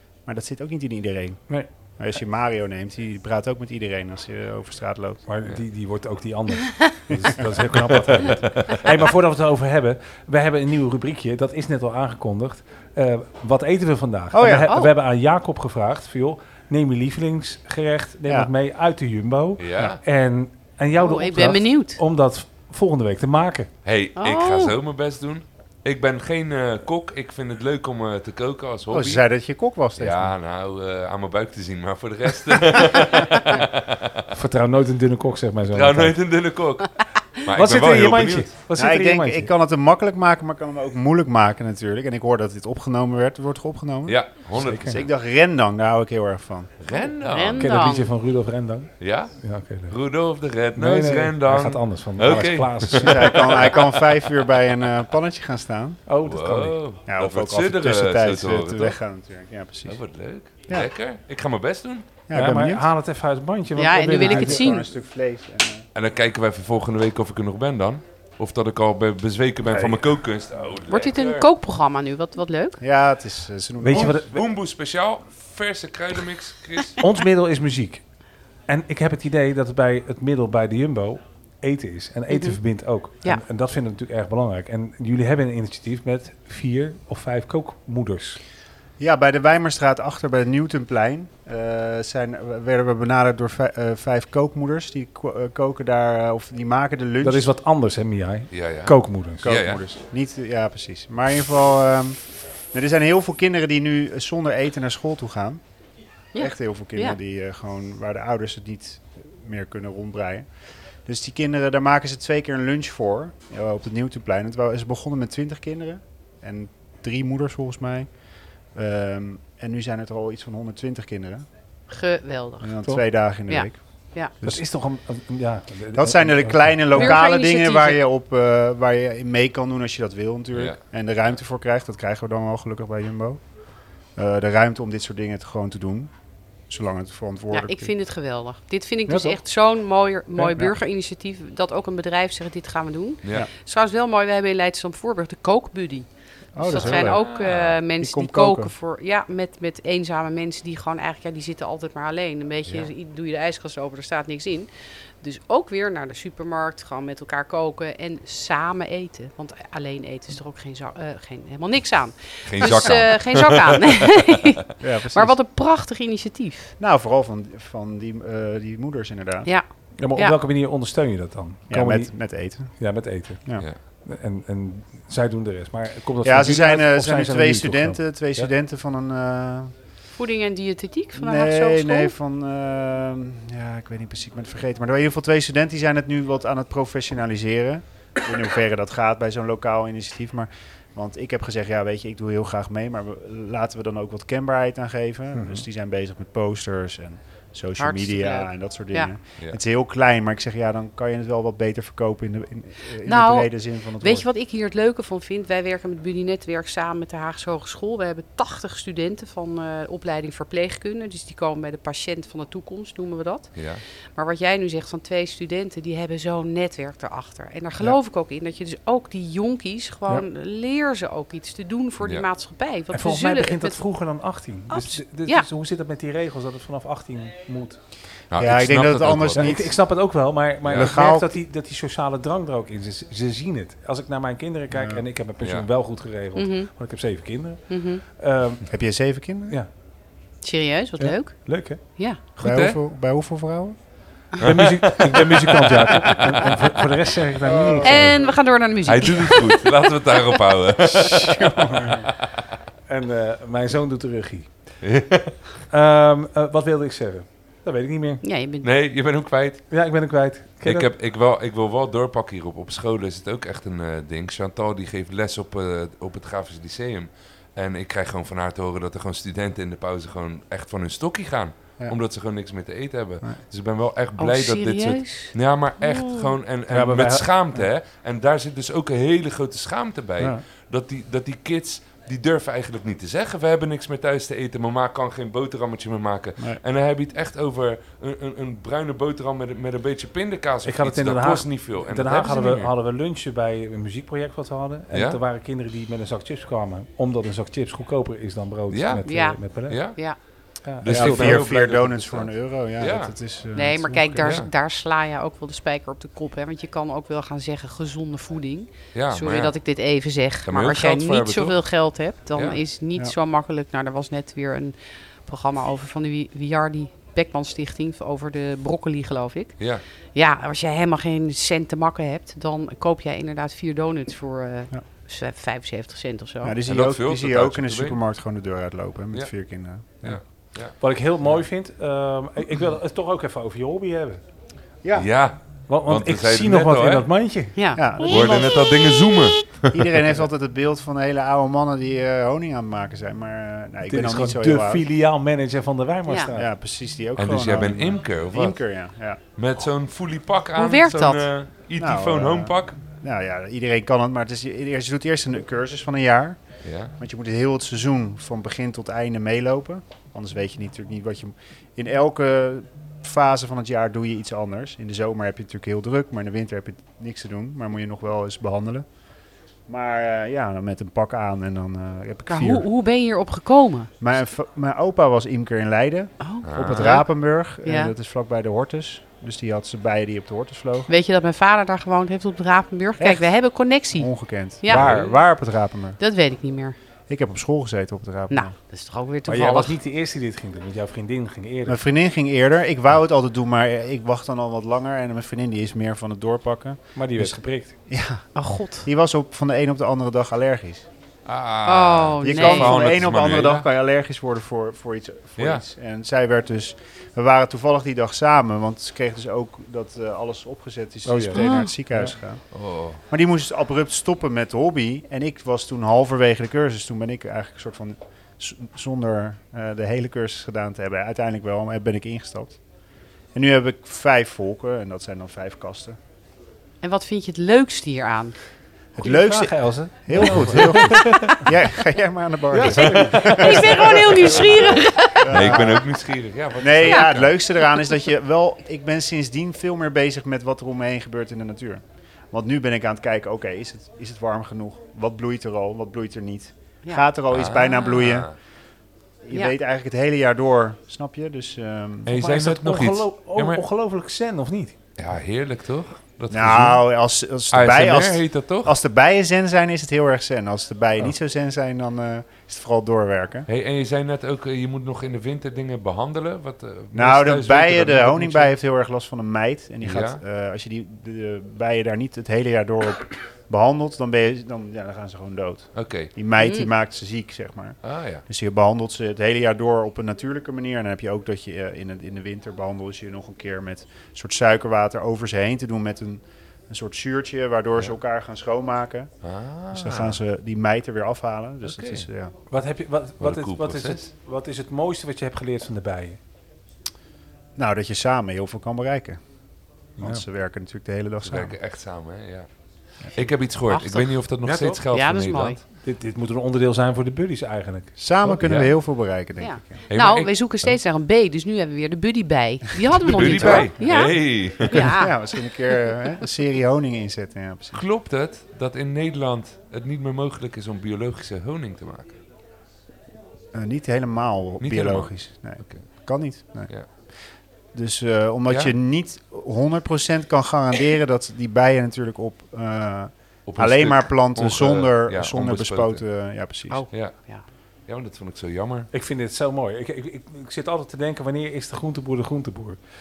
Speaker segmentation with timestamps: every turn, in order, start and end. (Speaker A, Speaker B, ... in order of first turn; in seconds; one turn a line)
Speaker A: 0.3-5.2
Speaker B: 5.3-23.7
Speaker C: 8.1-8.6
Speaker A: 14.3-14.7
Speaker D: 14.7-14.9
Speaker C: 19.6-20.0
Speaker D: 21.0-22.0
Speaker C: 23.9-29.2
Speaker D: 24.2-24.8
Speaker A: 28.9-30.3
Speaker C: 30.0-34.2
Speaker B: 34.3-36.1
Speaker C: 35.7-38.5
Speaker B: 37.5-39.5
Speaker A: 38.8-44.2
Speaker C: 44.1-45.1
Speaker B: 44.5-45.0
Speaker A: 44.9-46.7
Speaker C: 46.8-47.7
Speaker D: 47.2-48.1
Speaker B: 47.6-50.0
Speaker C: 49.0-49.3
Speaker C: 49.9-54.3
Speaker B: 50.8-53.3
Speaker A: 52.9-56.0
Speaker B: 56.1-56.8
Speaker C: 56.2-59.0
Speaker A: 57.1-60.0
Speaker C: 59.9-62.1
Speaker A: 62.3-62.9
Speaker B: 62.3-64.8
Speaker D: 63.8-64.8
Speaker A: 64.2-65.9
Speaker C: 66.0-71.5
Speaker D: 70.9-72.8
Speaker A: 72.8-74.2
Speaker B: 73.8-74.4
Speaker C: 73.9-77.0
Speaker B: 77.0-78.0
Speaker B: 78.7-88.4
Speaker D: 82.3-82.6
Speaker A: 89.0-97.5
Speaker B: 97.2-99.5
Speaker C: 98.5-99.8
Speaker A: 99.4-102.2
Speaker A: 102.7-105.6
Speaker D: 106.3-107.2
Speaker A: 106.4-110.5
Speaker A: 111.1-118.1
Speaker A: 118.7-121.5
Speaker D: 121.9-122.8
Speaker A: 122.6-123.8
Speaker D: 123.5-124.3
Speaker B: 124.4-127.2
Speaker A: 125.9-133.4
Speaker D: 126.9-128.0
Speaker A: 134.2-136.1
Speaker A: 136.7-137.9
Speaker D: 137.5-154.7
Speaker B: 139.1-139.4
Speaker B: 140.4-140.7
Speaker A: 146.6-147.2
Speaker C: 146.7-147.8
Speaker A: 148.0-148.7
Speaker D: 155.2-164.6
Speaker C: 162.5-164.2
Speaker A: 164.8-165.3
Speaker D: 165.1-166.7
Speaker A: 166.8-169.5
Speaker D: 169.4-170.4
Speaker B: 170.0-178.5
Speaker A: 171.7-173.7
Speaker A: 176.2-179.7
Speaker D: 180.2-182.1
Speaker A: 181.2-204.3
Speaker B: 195.3-195.7
Speaker D: 197.8-199.1
Speaker D: 203.0-213.6
Speaker C: 213.6-213.8
Speaker D: 214.2-223.8
Speaker B: 222.9-227.8
Speaker D: 224.7-225.5
Speaker C: 228.3-229.6
Speaker A: 228.4-229.8
Speaker B: 229.4-238.7
Speaker C: 230.7-230.9
Speaker A: 230.7-231.3
Speaker A: 234.7-235.0
Speaker D: 236.3-236.7
Speaker D: 237.7-238.0
Speaker A: 238.7-239.6
Speaker D: 240.4-242.2
Speaker B: 241.0-241.8
Speaker C: 242.4-242.8
Speaker A: 242.4-243.8
Speaker B: 244.4-248.2
Speaker C: 244.4-245.7
Speaker A: 247.4-248.3
Speaker D: 247.8-249.9
Speaker C: 248.8-252.1
Speaker B: 250.9-252.0
Speaker A: 251.4-252.1
Speaker B: 252.9-254.5
Speaker C: 254.8-255.4
Speaker B: 255.7-258.2
Speaker D: 258.2-258.7
Speaker C: 258.6-259.7
Speaker B: 259.7-260.9
Speaker C: 260.6-292.7
Speaker D: 274.2-276.3
Speaker B: 276.7-277.6
Speaker B: 290.6-299.9
Speaker C: 294.9-295.2
Speaker C: 298.7-299.0
Speaker D: 299.1-299.4
Speaker C: 299.5-300.0
Speaker B: 300.6-301.5
Speaker C: 300.8-303.1
Speaker A: 300.9-304.4
Speaker D: 303.6-314.8
Speaker C: 304.2-304.5
Speaker C: 308.9-309.6
Speaker C: 310.5-311.6
Speaker C: 312.4-312.6
Speaker D: 315.3-319.6
Speaker D: 320.1-326.6
Speaker A: 326.4-330.2
Speaker C: 326.7-328.0
Speaker C: 330.0-330.8
Speaker B: 330.8-334.2
Speaker A: 334.8-335.1
Speaker C: 334.9-337.1
Speaker B: 335.7-337.6
Speaker D: 337.6-337.9
Speaker A: 337.8-338.5
Speaker C: 338.0-340.0
Speaker A: 339.7-344.8
Speaker B: 343.9-346.5
Speaker A: 346.3-349.2
Speaker C: 347.2-348.6
Speaker C: 349.4-352.8
Speaker D: 350.6-351.3
Speaker A: 351.8-356.4
Speaker C: 356.6-356.9
Speaker A: 357.0-368.9
Speaker A: 369.7-372.7
Speaker D: 372.3-373.9
Speaker A: 374.0-380.9
Speaker D: 376.2-377.1
Speaker C: 376.4-376.9
Speaker D: 377.6-377.9
Speaker D: 380.9-384.1
Speaker A: 383.0-383.3
Speaker A: 383.9-386.0
Speaker D: 384.6-385.0
Speaker C: 384.7-385.1
Speaker D: 386.0-386.8
Speaker A: 387.1-388.5
Speaker D: 388.3-389.8
Speaker B: 389.3-391.8
Speaker A: 391.7-400.9
Speaker B: 397.0-397.8
Speaker D: 398.4-398.9
Speaker C: 401.3-403.7
Speaker D: 401.6-402.9
Speaker A: 402.2-412.4
Speaker C: 405.4-405.6
Speaker B: 411.1-412.1
Speaker D: 411.4-411.7
Speaker C: 412.5-413.0
Speaker A: 413.1-422.6
Speaker A: 423.3-426.0
Speaker D: 426.8-428.4
Speaker A: 429.0-434.3
Speaker B: 429.0-431.4
Speaker D: 430.9-431.4
Speaker B: 432.5-433.7
Speaker C: 432.8-434.6
Speaker D: 433.3-435.7
Speaker A: 435.2-435.9
Speaker C: 435.3-437.4
Speaker A: 436.6-448.3
Speaker C: 447.3-448.4
Speaker A: 449.2-452.1
Speaker C: 452.1-453.6
Speaker B: 452.1-454.8
Speaker C: 455.0-456.8
Speaker A: 456.3-463.5
Speaker C: 457.5-458.8
Speaker C: 463.5-468.5
Speaker A: 466.9-489.1
Speaker C: 469.8-470.2
Speaker C: 475.8-476.1
Speaker D: 476.4-476.7
Speaker C: 477.8-478.2
Speaker C: 489.2-490.2
Speaker A: 489.7-492.3
Speaker C: 491.6-492.1
Speaker B: 492.5-496.2
Speaker C: 493.2-494.0
Speaker A: 497.6-499.2
Speaker A: 500.0-501.6
Speaker C: 501.3-502.5
Speaker C: 503.1-505.6
Speaker D: 503.7-504.1
Speaker B: 504.4-504.8
Speaker D: 504.9-505.6
Speaker B: 505.8-508.0
Speaker A: 508.0-509.7
Speaker C: 508.4-508.7
Speaker D: 509.4-515.2
Speaker C: 509.9-510.7
Speaker C: 513.0-514.9
Speaker A: 513.1-514.1
Speaker A: 514.8-517.8
Speaker C: 517.7-522.2
Speaker A: 523.5-526.7
Speaker C: 524.6-525.9
Speaker A: 527.7-536.8
Speaker C: 533.5-536.1
Speaker D: 536.7-537.5
Speaker C: 536.9-537.2
Speaker C: 537.9-538.9
Speaker B: 538.9-542.8